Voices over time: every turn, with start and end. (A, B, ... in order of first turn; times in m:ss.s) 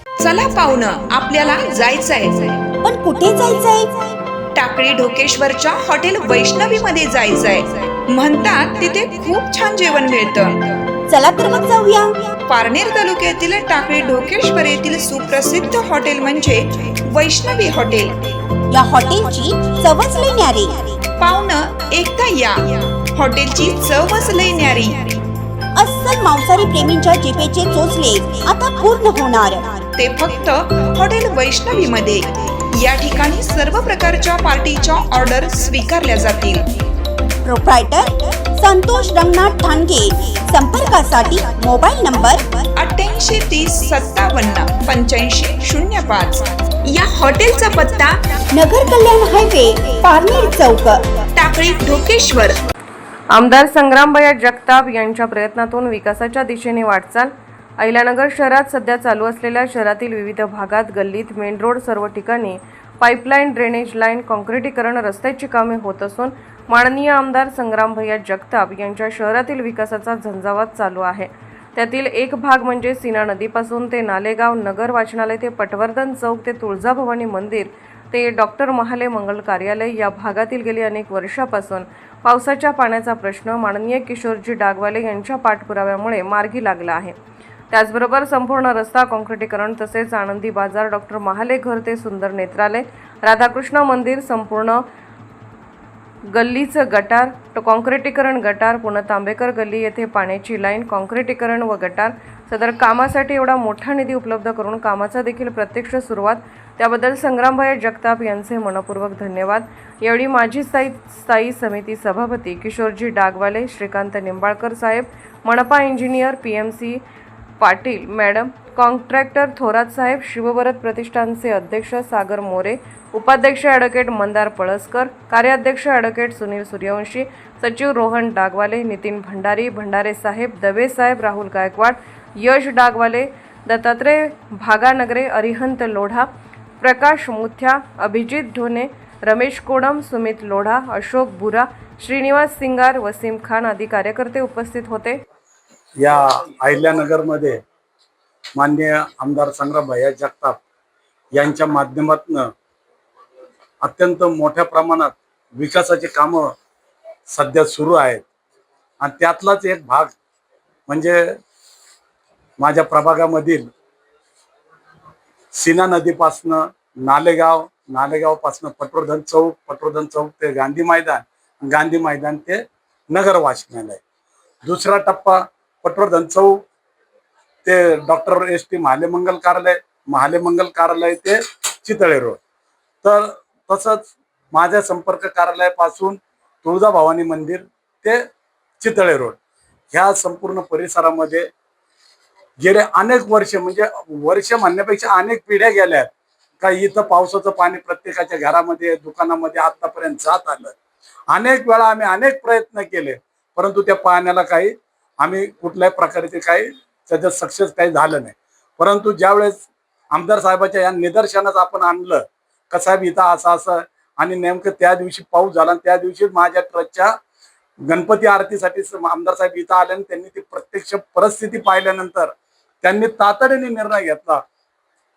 0:00.2-0:02.6 A
0:02.8-0:04.0 B
0:04.5-0:10.7 A
0:11.1-0:12.2 B
0:12.5-0:18.3 A
0:18.7-0:21.0 B
0:21.2-0:25.2 A
0:25.8-0:29.8 B
0:30.0-0:36.7 A
0:37.4-0:42.4 B
0:42.8-0:48.2 A
0:48.5-0:51.1 B
0:51.3-0:52.6 A
0:53.3-1:27.2 C
1:27.7-1:34.8 C
1:36.3-1:57.0 C
1:57.6-2:16.3 C
2:16.8-2:25.2 C
2:26.0-2:27.6 D
2:28.6-2:30.6 D
2:31.4-2:32.5 D
2:33.8-2:36.5 D
2:37.3-2:38.2 D
2:39.0-2:40.1 D
2:40.9-2:41.2 D
2:42.6-2:43.6 D
2:45.6-2:54.0 D
2:54.6-2:56.6 D
2:57.6-3:02.4 D
3:03.0-3:08.2 D
3:08.8-3:09.4 D
3:09.9-3:11.4 D
3:12.6-3:16.1 D
3:16.6-3:20.7 D
3:21.3-3:37.1 D
3:37.9-3:42.3 D
3:42.8-3:44.4 D